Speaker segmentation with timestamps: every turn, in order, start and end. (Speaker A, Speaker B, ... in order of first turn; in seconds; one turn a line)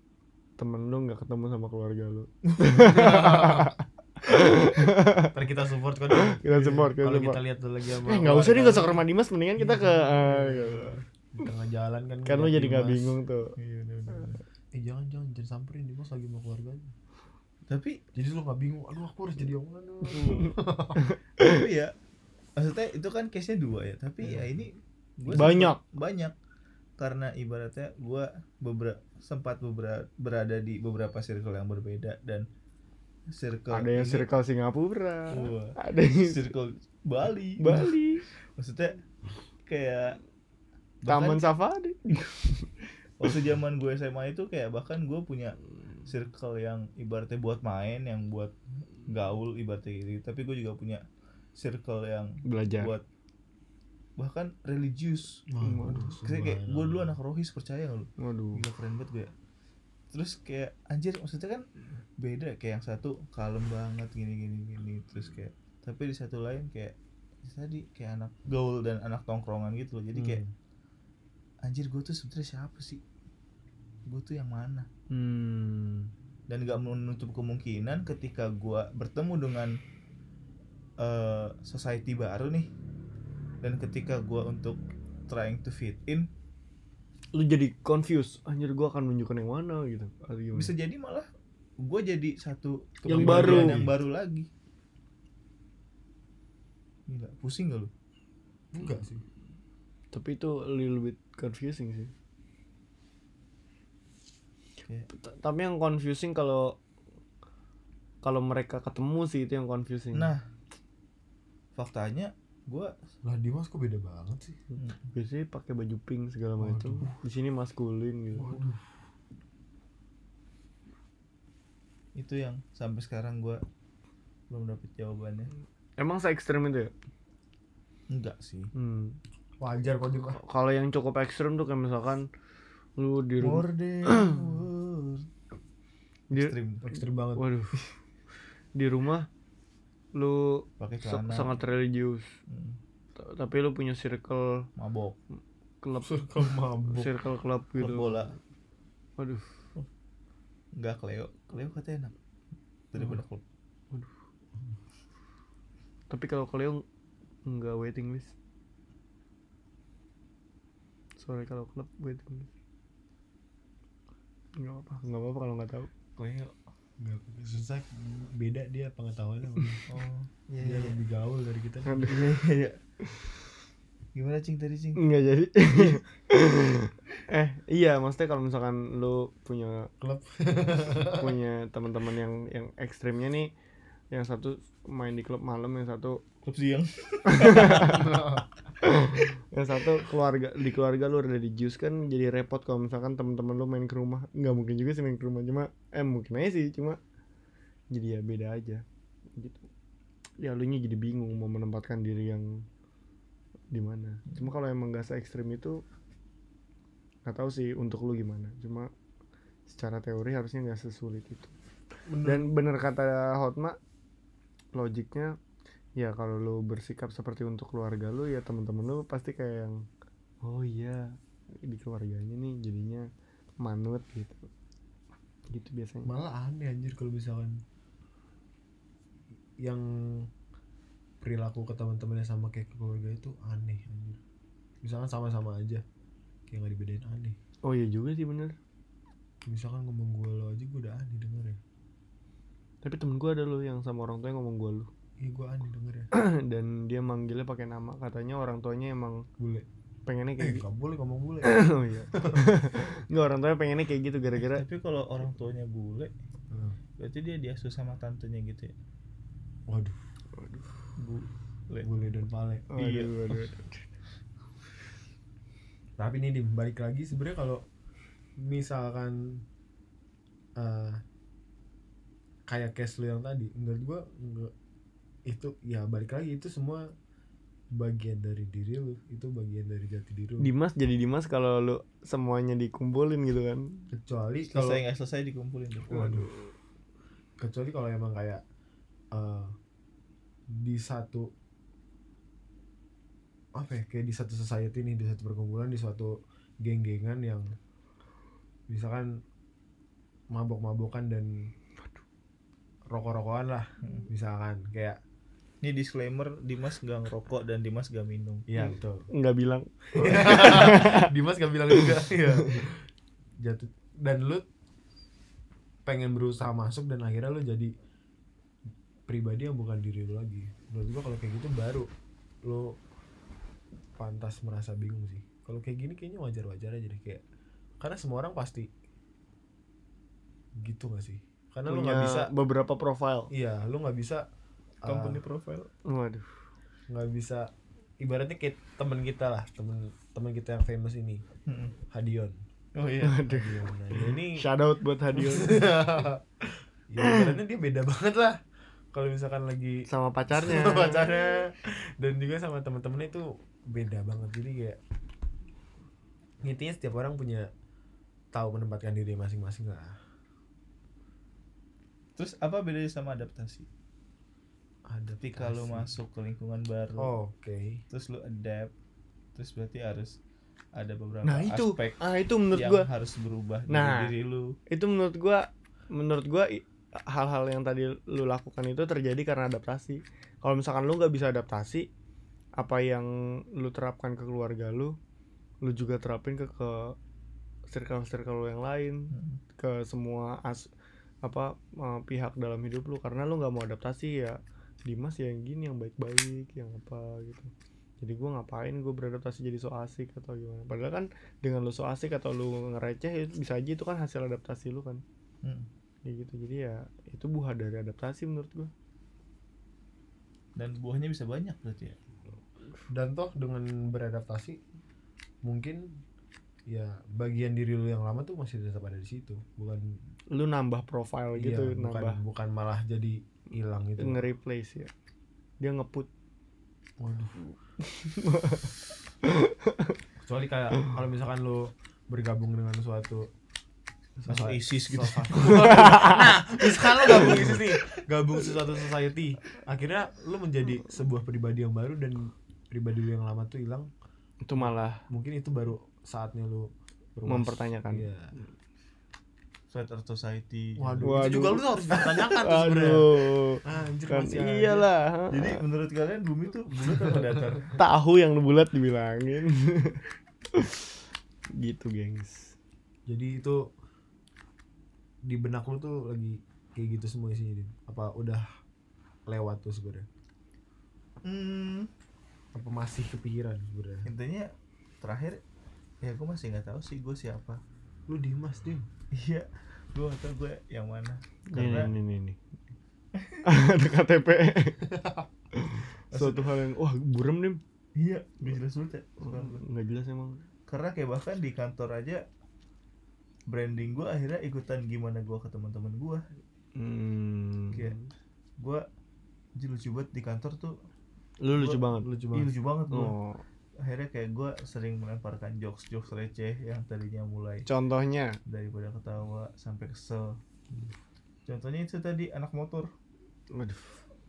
Speaker A: 0.6-5.3
Speaker B: 2.5-3.2
Speaker C: 2.9-3.7
Speaker C: 5.1-13.2
Speaker A: 6.1-7.4
Speaker A: 8.0-11.0
Speaker A: 12.2-13.5
Speaker B: 13.6-14.4
Speaker C: 14.7-16.9
Speaker B: 17.7-18.0
Speaker C: 18.1-21.1
Speaker B: 20.1-20.5
Speaker A: 20.9-21.6
Speaker B: 21.4-21.9
Speaker B: 22.6-26.3
Speaker C: 24.2-24.5
Speaker A: 25.3-25.8
Speaker B: 27.0-32.5
Speaker B: 33.3-34.3
Speaker A: 33.7-36.4
Speaker B: 35.3-39.0
Speaker A: 37.6-38.2
Speaker B: 39.6-40.2
Speaker B: 41.0-41.4
Speaker A: 41.1-42.7
Speaker B: 43.2-48.5
Speaker B: 49.0-51.0
Speaker B: 51.5-53.0
Speaker A: 52.4-52.9
Speaker B: 54.2-55.4
Speaker C: 55.5-57.1
Speaker A: 55.6-56.1
Speaker B: 56.2-59.3
Speaker A: 58.2-58.6
Speaker B: 60.1-61.6
Speaker B: 62.2-70.4
Speaker C: 70.1-70.5
Speaker B: 71.6-73.0
Speaker B: 74.1-74.9
Speaker A: 75.1-76.1
Speaker B: 76.5-79.8
Speaker B: 81.0-82.7
Speaker B: 83.6-86.3
Speaker A: 87.3-90.7
Speaker B: 90.5-91.3
Speaker B: 91.8-94.5
Speaker A: 93.0-93.8
Speaker C: 93.1-93.9
Speaker B: 97.1-97.9
Speaker C: 98.7-99.2
Speaker A: 100.1-102.1
Speaker A: 105.1-106.8
Speaker A: 108.2-110.3
Speaker B: 110.1-110.4
Speaker B: 111.8-112.9
Speaker C: 113.2-114.6
Speaker A: 115.0-118.6
Speaker C: 116.6-117.1
Speaker C: 118.3-118.8
Speaker B: 122.2-123.6
Speaker B: 124.5-125.5
Speaker A: 126.0-126.9
Speaker B: 128.1-128.7
Speaker A: 128.7-129.2
Speaker C: 129.6-130.4
Speaker A: 130.3-132.3
Speaker A: 133.0-134.5
Speaker B: 133.4-135.3
Speaker B: 136.3-136.8
Speaker C: 136.8-137.4
Speaker A: 137.3-137.8
Speaker A: 138.8-139.3
Speaker A: 140.1-142.3
Speaker B: 140.8-141.6
Speaker B: 142.5-142.8
Speaker A: 143.2-144.7
Speaker B: 144.8-145.2
Speaker A: 145.8-146.2
Speaker C: 146.0-147.1
Speaker A: 146.9-148.3
Speaker B: 147.8-148.3
Speaker A: 149.2-149.5
Speaker B: 150.7-152.1
Speaker B: 152.9-153.4
Speaker A: 156.1-156.8
Speaker A: 157.4-158.3
Speaker A: 161.2-162.5
Speaker A: 164.6-165.9
Speaker B: 166.2-166.6
Speaker C: 167.0-169.8
Speaker B: 169.9-171.0
Speaker C: 170.6-172.2
Speaker A: 171.9-172.2
Speaker B: 172.1-172.8
Speaker B: 174.1-175.0
Speaker A: 174.9-179.9
Speaker C: 180.0-181.3
Speaker A: 180.9-183.5
Speaker A: 184.1-186.2
Speaker B: 186.4-188.2
Speaker A: 187.2-188.2
Speaker C: 187.8-188.4
Speaker A: 188.8-197.0
Speaker A: 197.9-198.8
Speaker A: 199.3-199.7
Speaker A: 200.4-202.6
Speaker A: 203.7-205.8
Speaker A: 207.2-208.9
Speaker A: 209.7-211.5
Speaker C: 212.1-212.6
Speaker A: 212.2-213.8
Speaker A: 214.7-215.4
Speaker A: 216.0-219.8
Speaker A: 220.4-223.1
Speaker A: 223.6-224.5
Speaker A: 225.5-226.1
Speaker C: 226.1-227.6
Speaker C: 229.6-230.3
Speaker C: 231.2-234.2
Speaker C: 234.8-235.8
Speaker C: 236.5-237.3
Speaker A: 237.6-238.6
Speaker C: 239.4-241.6
Speaker A: 242.8-244.9
Speaker C: 245.2-246.1
Speaker A: 246.1-249.2
Speaker C: 249.4-249.7
Speaker A: 250.1-250.6
Speaker C: 250.4-252.6
Speaker A: 251.4-254.6
Speaker B: 254.4-256.1
Speaker C: 256.5-256.8
Speaker B: 257.0-258.7
Speaker C: 259.7-260.0
Speaker A: 260.4-260.6
Speaker B: 261.0-261.9
Speaker C: 261.8-262.7
Speaker A: 262.7-263.8
Speaker B: 262.8-263.5
Speaker C: 266.0-267.6
Speaker C: 268.4-269.4
Speaker C: 270.6-271.0
Speaker C: 272.5-274.5
Speaker C: 275.2-276.9
Speaker C: 277.7-280.5
Speaker A: 280.4-283.8
Speaker C: 283.9-284.8
Speaker B: 284.5-286.2
Speaker C: 285.9-286.3
Speaker C: 287.4-288.4
Speaker C: 289.1-289.5
Speaker C: 290.5-291.3
Speaker C: 293.5-297.5
Speaker C: 298.7-299.2
Speaker C: 300.3-301.5
Speaker C: 302.9-305.0
Speaker B: 305.6-308.5
Speaker C: 308.5-309.1
Speaker A: 309.1-311.1
Speaker C: 309.9-312.8
Speaker A: 311.7-312.5
Speaker C: 313.4-314.4
Speaker C: 315.9-317.7
Speaker C: 319.1-321.9
Speaker C: 322.4-322.8
Speaker C: 324.0-327.2
Speaker C: 327.8-328.7
Speaker C: 330.6-332.3
Speaker A: 331.6-333.3
Speaker C: 333.3-334.2
Speaker C: 334.8-335.2
Speaker B: 334.8-335.7
Speaker A: 335.8-336.3
Speaker C: 336.9-341.2
Speaker B: 341.4-341.7
Speaker C: 341.9-342.4
Speaker B: 342.7-343.2
Speaker A: 343.0-345.7
Speaker C: 343.2-344.4
Speaker C: 345.2-348.4
Speaker A: 347.0-347.2
Speaker C: 348.9-354.8
Speaker A: 349.9-351.4
Speaker C: 356.4-357.5
Speaker C: 358.3-360.0
Speaker B: 362.1-363.7
Speaker C: 364.9-365.9
Speaker B: 365.2-367.1
Speaker C: 367.0-367.8
Speaker B: 367.9-368.7
Speaker B: 369.3-370.2
Speaker B: 370.8-372.0
Speaker A: 371.2-372.9
Speaker B: 372.5-374.5
Speaker A: 373.7-374.1
Speaker A: 374.7-381.9
Speaker A: 382.6-384.9
Speaker A: 385.6-386.9
Speaker A: 387.7-390.7
Speaker B: 389.1-389.4
Speaker A: 391.2-405.0
Speaker B: 405.4-405.7
Speaker A: 406.1-408.7
Speaker B: 410.6-412.0
Speaker C: 412.9-414.6
Speaker C: 415.4-416.0
Speaker C: 416.7-420.0
Speaker A: 420.3-422.2
Speaker C: 421.4-424.2
Speaker A: 424.0-424.9
Speaker A: 425.6-426.1
Speaker C: 427.0-427.4
Speaker A: 427.8-430.0
Speaker C: 430.2-433.3
Speaker C: 434.2-443.9
Speaker B: 434.3-436.3
Speaker A: 435.4-436.3
Speaker A: 436.9-437.6
Speaker B: 437.1-437.5
Speaker A: 444.4-445.0
Speaker C: 444.6-448.4
Speaker A: 447.3-448.1
Speaker B: 449.7-451.5
Speaker C: 450.8-454.9
Speaker A: 451.0-455.6
Speaker B: 455.3-457.8
Speaker A: 457.7-460.9
Speaker A: 461.6-462.5
Speaker C: 463.1-463.6
Speaker C: 465.2-468.4
Speaker C: 469.3-470.1
Speaker B: 471.2-471.9
Speaker C: 472.5-474.1
Speaker B: 474.0-475.4
Speaker B: 476.0-477.6
Speaker C: 478.1-478.9
Speaker B: 479.1-481.9
Speaker A: 481.5-482.5
Speaker B: 483.1-483.4
Speaker A: 483.4-484.9
Speaker C: 484.9-485.2
Speaker A: 485.5-487.6
Speaker B: 486.1-486.5
Speaker B: 487.9-489.6
Speaker A: 489.2-490.4
Speaker B: 490.7-492.2
Speaker B: 493.5-496.2
Speaker A: 496.8-498.1
Speaker B: 498.6-498.8
Speaker B: 499.6-500.8
Speaker A: 501.4-502.1
Speaker B: 501.6-501.8
Speaker C: 502.0-502.6
Speaker B: 502.3-503.1
Speaker A: 502.9-503.4
Speaker B: 503.8-507.6
Speaker A: 507.6-508.4
Speaker B: 508.4-510.4
Speaker B: 511.4-512.9
Speaker A: 513.5-514.0